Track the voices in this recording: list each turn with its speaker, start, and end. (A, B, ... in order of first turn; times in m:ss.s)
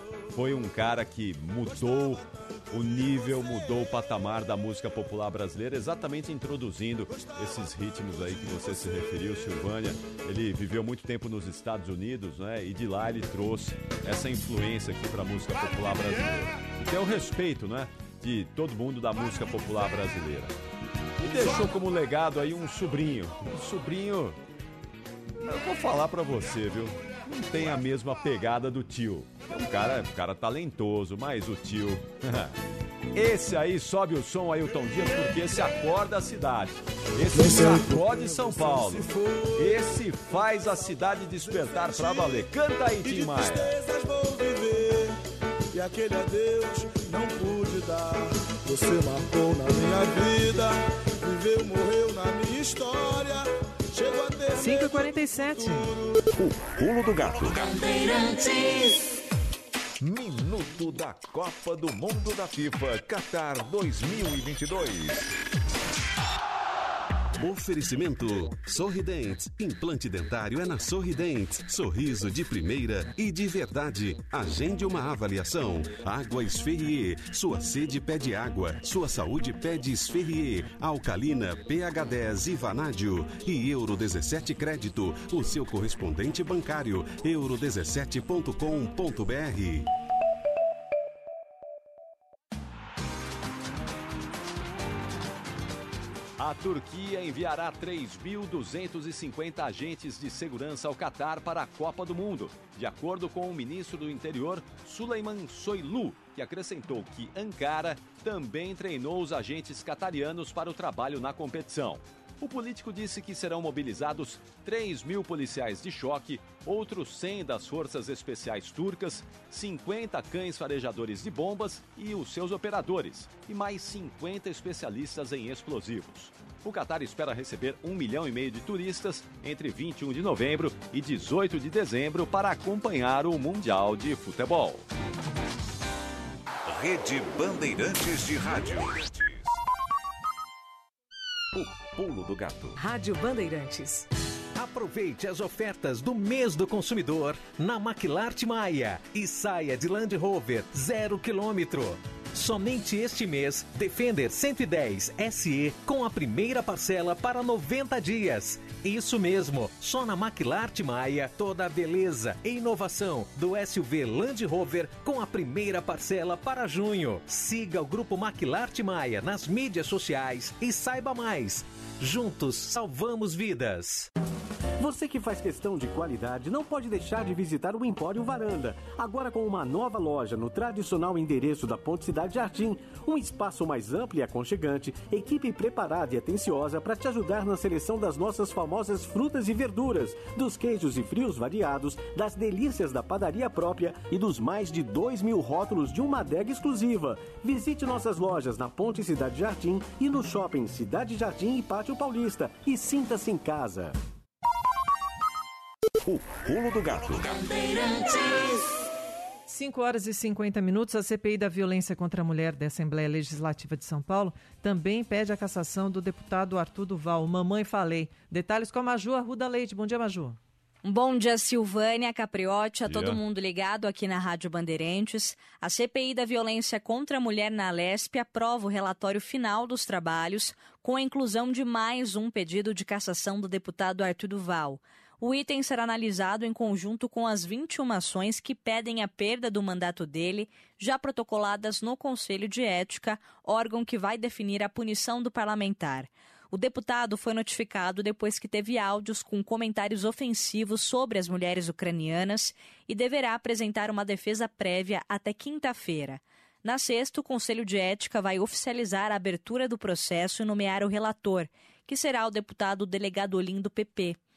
0:00.3-0:20.6 A
0:01.7-0:03.9 B
0:07.1-0:07.7 B
0:21.2-0:24.4 A
0:25.4-0:32.5 A
0:33.1-0:39.1 A
0:34.8-0:35.8 B
0:37.3-0:42.5 B
0:39.6-0:43.8 A
0:43.0-0:45.2 B
0:45.7-0:56.2 B
0:54.6-0:55.9 C
0:56.4-0:58.3 D
1:00.0-1:05.3 D
1:07.4-1:29.9 E
1:36.4-2:14.8 A
2:16.6-2:19.6 D
2:21.6-2:22.8 D
2:24.6-2:54.1 F
2:54.8-3:24.0 G
3:26.0-3:27.7 D
3:29.5-3:40.4 C
3:40.8-4:24.2 H
3:42.9-3:43.2 A